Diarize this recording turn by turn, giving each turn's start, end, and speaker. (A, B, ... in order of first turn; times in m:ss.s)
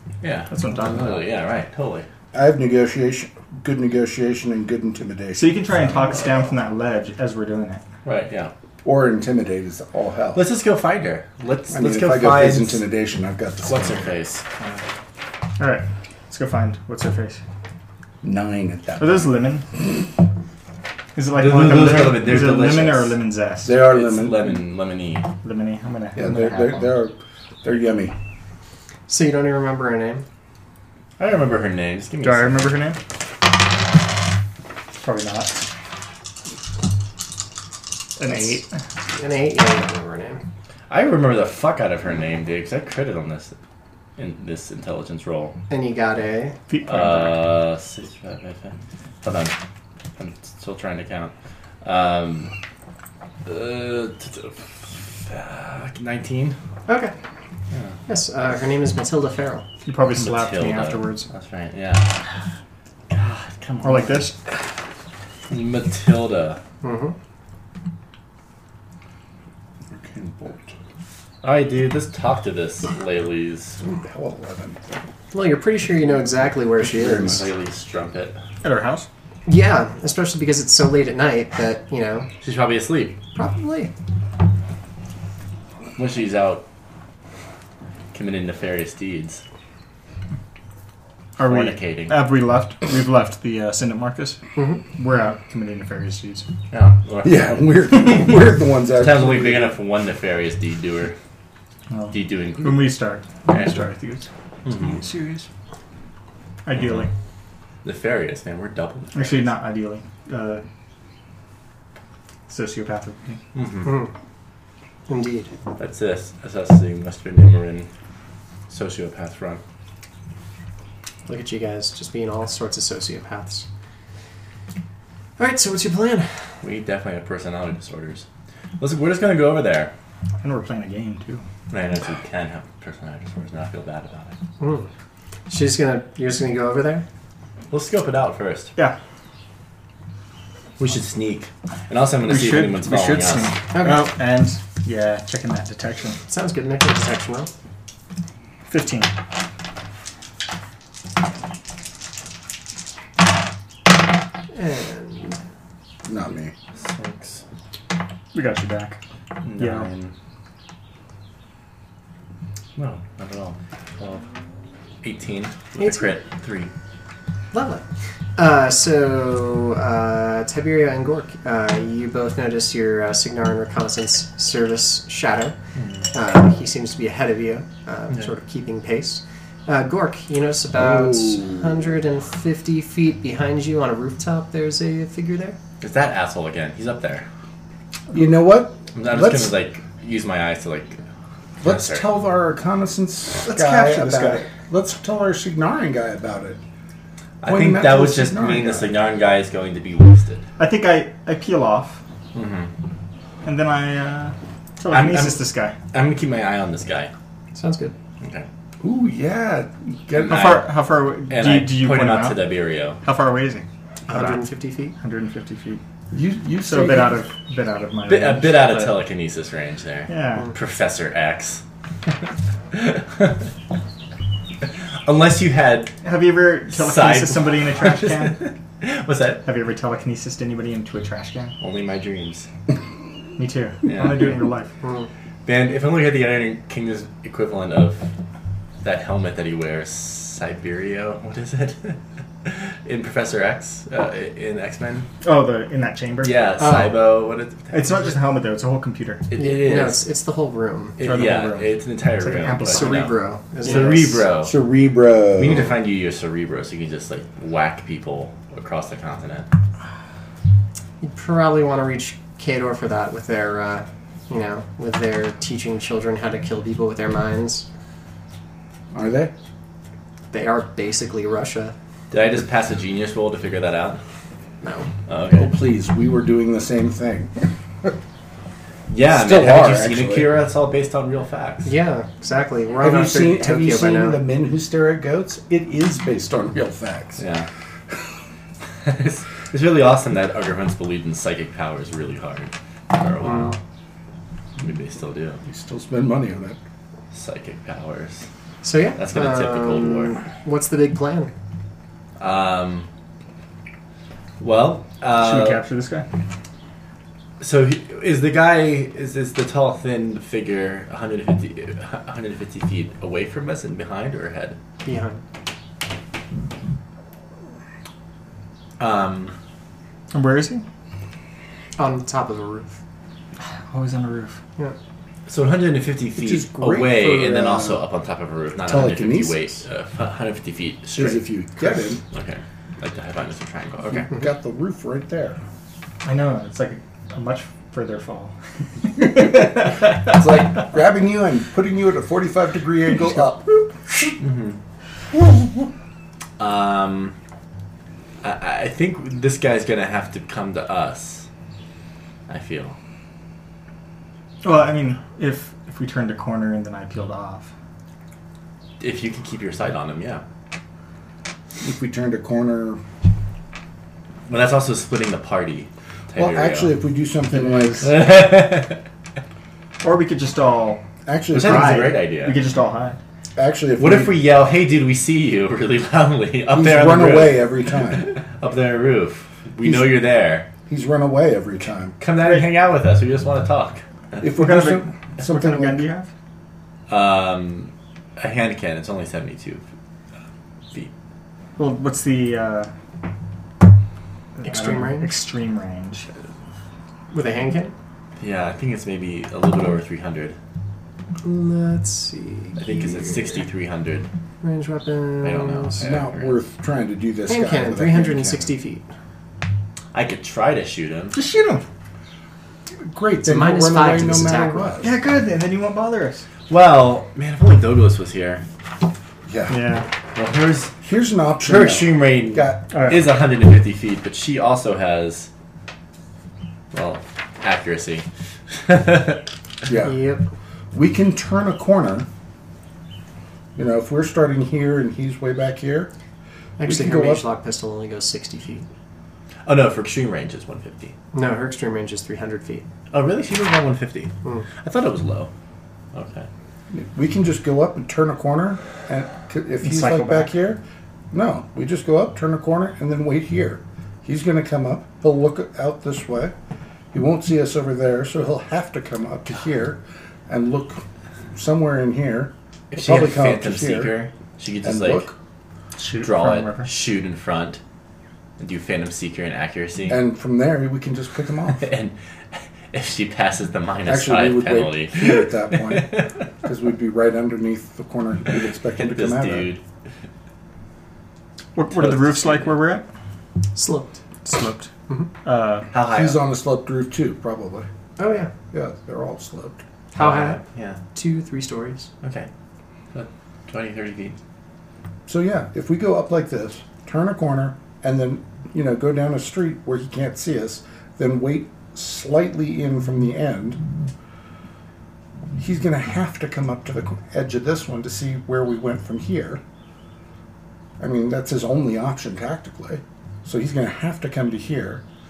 0:00.2-0:02.1 A
0:00.5-0:01.2 B
0:02.3-0:06.4 C
0:05.4-0:07.8 B
0:08.0-0:08.5 A
0:08.8-0:10.4 C
0:10.3-0:12.9 A
0:11.7-0:14.1 C
0:13.7-0:14.4 A
0:15.6-0:17.4 B
0:18.2-0:19.4 C
0:19.0-0:19.7 B
0:21.1-0:23.8 B
0:21.3-0:23.2 A
0:23.6-0:24.6 C
0:23.8-0:25.3 A
0:25.4-0:26.9 B
0:26.1-0:28.1 C
0:29.1-0:30.2 D
0:31.2-0:32.7 A
0:32.2-0:33.0 B
0:35.0-0:35.6 B
0:38.2-0:38.7 B
0:38.2-0:38.6 D
0:39.2-0:40.4 D
0:40.9-0:43.5 A
0:44.2-0:45.6 A
0:45.7-0:46.6 D
0:46.7-0:47.4 B
0:46.8-0:49.6 A
0:50.2-0:52.5 A
0:53.4-0:56.6 A
0:56.9-0:57.1 D
0:57.7-0:58.0 A
0:58.1-0:59.6 D
0:59.8-1:01.3 B
1:00.1-1:02.2 A
1:03.1-1:04.3 A
1:03.8-1:04.4 B
1:05.5-1:06.6 A
1:06.8-1:07.1 D
1:09.9-1:10.7 C
1:11.4-1:13.8 A
1:13.8-1:15.0 C
1:15.3-1:17.4 D
1:16.0-1:17.4 C
1:17.0-1:18.4 A
1:18.6-1:19.1 B
1:19.4-1:22.3 D
1:22.4-1:23.2 A
1:23.3-1:23.9 D
1:26.0-1:26.6 A
1:28.1-1:29.4 A
1:31.4-1:34.4 B
1:31.4-1:32.3 A
1:34.6-1:34.8 D
1:34.9-1:36.4 B
1:36.7-1:38.4 A
1:37.2-1:39.8 C
1:39.0-1:41.1 A
1:41.9-1:44.3 B
1:42.1-1:43.8 A
1:44.6-1:45.0 A
1:44.9-1:45.5 B
1:46.6-1:47.1 B
1:46.7-1:47.1 A
1:47.8-1:49.5 A
1:49.1-1:50.6 B
1:52.5-1:53.4 B
1:53.5-1:54.0 A
1:53.8-1:54.1 D
1:55.1-1:55.5 D
1:55.8-1:57.9 A
1:58.7-1:59.6 A
2:01.2-2:03.6 D
2:05.4-2:06.3 D
2:06.6-2:08.2 A
2:08.8-2:09.9 A
2:10.4-2:11.4 B
2:11.7-2:14.3 A
2:14.6-2:14.9 D
2:15.5-2:17.0 D
2:17.7-2:18.7 A
2:20.8-2:23.6 A
2:22.2-2:26.2 B
2:23.7-2:24.0 D
2:26.3-2:27.5 D
2:28.7-2:29.1 B
2:34.5-2:35.4 D
2:36.0-2:36.5 C
2:36.7-2:37.4 A
2:38.3-2:39.0 B
2:39.4-2:40.1 A
2:39.6-2:39.9 B
2:42.8-2:44.2 A
2:45.0-2:46.7 A
2:45.8-2:46.1 D
2:47.5-2:47.8 D
2:48.4-2:55.5 D
2:55.8-2:56.1 A
2:56.1-3:05.6 D
3:00.7-3:01.9 C
3:05.8-3:07.2 A
3:08.1-3:09.5 C
3:08.9-3:11.0 A
3:11.6-3:16.6 C
3:11.6-3:12.0 A
3:13.5-3:14.5 B
3:17.4-3:20.4 A
3:17.4-3:18.9 C
3:20.6-3:22.0 B
3:22.3-3:22.7 A
3:23.4-3:25.7 B
3:24.9-3:27.1 A
3:27.5-3:27.9 D
3:28.2-3:28.5 A
3:28.8-3:30.6 C
3:30.2-3:30.7 A
3:30.2-3:34.3 B
3:31.3-3:33.0 A
3:34.0-3:34.9 D
3:35.0-3:35.8 B
3:36.1-3:37.2 C
3:36.6-3:38.9 B
3:38.1-3:41.6 A
3:40.1-3:40.5 B
3:42.7-3:43.5 A
3:44.6-3:45.9 A
3:46.0-3:48.5 B
3:46.7-3:49.4 A
3:49.4-3:51.5 B
3:51.6-3:52.5 A
3:53.4-3:54.7 B
3:53.8-3:54.4 A
3:54.8-3:55.1 D
3:55.4-3:58.1 A
3:58.8-4:05.1 A
4:05.2-4:06.9 B
4:06.2-4:08.2 A
4:06.6-4:06.9 D
4:07.7-4:09.2 B
4:09.3-4:10.0 A
4:09.4-4:11.0 D
4:11.0-4:14.5 A
4:11.0-4:13.1 B
4:12.7-4:14.2 D
4:13.6-4:14.1 B
4:14.4-4:15.7 C
4:15.4-4:19.5 A
4:21.0-4:27.6 D
4:28.9-4:29.3 C
4:30.3-4:31.7 D
4:32.1-4:34.0 A
4:34.6-4:34.9 D
4:35.1-4:35.5 A
4:35.3-4:37.9 C
4:38.9-4:41.7 A
4:39.1-4:40.3 C
4:41.6-4:44.2 D
4:42.8-4:47.2 C
4:47.2-4:47.5 A
4:48.8-4:53.6 A
4:53.2-4:53.5 D
4:54.6-4:55.4 A
4:55.4-4:56.6 C
4:57.1-4:58.3 A
4:58.6-5:01.3 D
4:59.0-5:00.2 A
5:02.2-5:02.9 A
5:04.4-5:05.6 A
5:05.1-5:06.0 B
5:07.4-5:14.6 A
5:14.8-5:15.2 D
5:18.8-5:19.4 A
5:20.1-5:20.6 B
5:21.8-5:22.8 D
5:23.7-5:24.4 B
5:25.3-5:34.1 A
5:26.2-5:27.8 C
5:28.6-5:29.6 C
5:30.9-5:32.0 C
5:34.0-5:35.4 C
5:36.0-5:39.9 B
5:39.1-5:44.2 C
5:44.2-5:44.6 A
5:46.4-5:47.2 A
5:48.2-5:51.3 A
5:52.3-5:52.8 A
5:54.4-5:57.5 B
5:58.8-6:00.2 A
6:01.6-6:02.8 C
6:04.3-6:06.7 A
6:06.2-6:08.0 C
6:07.3-6:07.9 B
6:07.8-6:08.8 A
6:09.8-6:10.8 B
6:11.0-6:11.9 C
6:11.3-6:12.4 A
6:11.3-6:13.0 B
6:13.4-6:14.2 C
6:13.8-6:20.5 A
6:16.5-6:18.1 C
6:19.6-6:20.0 C
6:20.6-6:22.0 C
6:22.0-6:23.8 A
6:22.2-6:22.5 B
6:24.2-6:25.8 C
6:24.2-6:26.1 B
6:26.9-6:29.6 A
6:31.6-6:32.7 B
6:34.4-6:36.1 B
6:34.4-6:35.1 D
6:37.1-6:37.7 D
6:38.2-6:40.4 A
6:41.2-6:43.4 D
6:42.6-6:44.1 A
6:44.4-6:45.8 D
6:45.2-6:46.4 A
6:45.8-6:48.5 C
6:47.3-6:48.8 D
6:49.9-6:51.2 A
6:51.1-6:51.6 B
6:52.8-6:54.9 C
6:53.2-6:54.8 D
6:54.8-6:56.2 B
6:56.5-6:58.4 A
6:59.3-6:59.6 C
6:59.5-6:59.9 B
7:00.1-7:00.7 A
7:00.8-7:02.6 C
7:01.4-7:05.3 A
7:02.7-7:03.0 B
7:06.7-7:09.2 A
7:09.6-7:10.0 C
7:09.8-7:10.2 D
7:10.7-7:12.1 C
7:13.6-7:15.9 C
7:16.6-7:18.6 D
7:16.6-7:17.2 C
7:19.4-7:20.9 A
7:21.1-7:22.6 D
7:22.9-7:25.3 A
7:25.9-7:26.3 A
7:26.7-7:36.3 C
7:29.6-7:30.3 B
7:36.9-7:44.0 C
7:42.7-7:45.1 A
7:44.6-7:45.1 C
7:45.8-7:46.7 B
7:46.0-7:47.6 A
7:48.4-7:50.0 A
7:49.9-7:51.7 C
7:51.5-7:56.1 A
7:53.9-7:59.5 C
7:58.3-7:59.6 A
8:01.5-8:02.8 B
8:01.7-8:02.5 A
8:03.5-8:04.0 D
8:04.2-8:04.7 B
8:05.2-8:05.7 B
8:05.7-8:06.2 A
8:05.8-8:07.7 C
8:08.0-8:08.3 D
8:08.5-8:09.6 C
8:09.9-8:10.4 D
8:10.0-8:10.8 A
8:10.9-8:11.9 D
8:12.0-8:12.3 A
8:12.9-8:14.2 A
8:15.1-8:23.6 C
8:25.4-8:29.4 C
8:30.8-8:34.8 C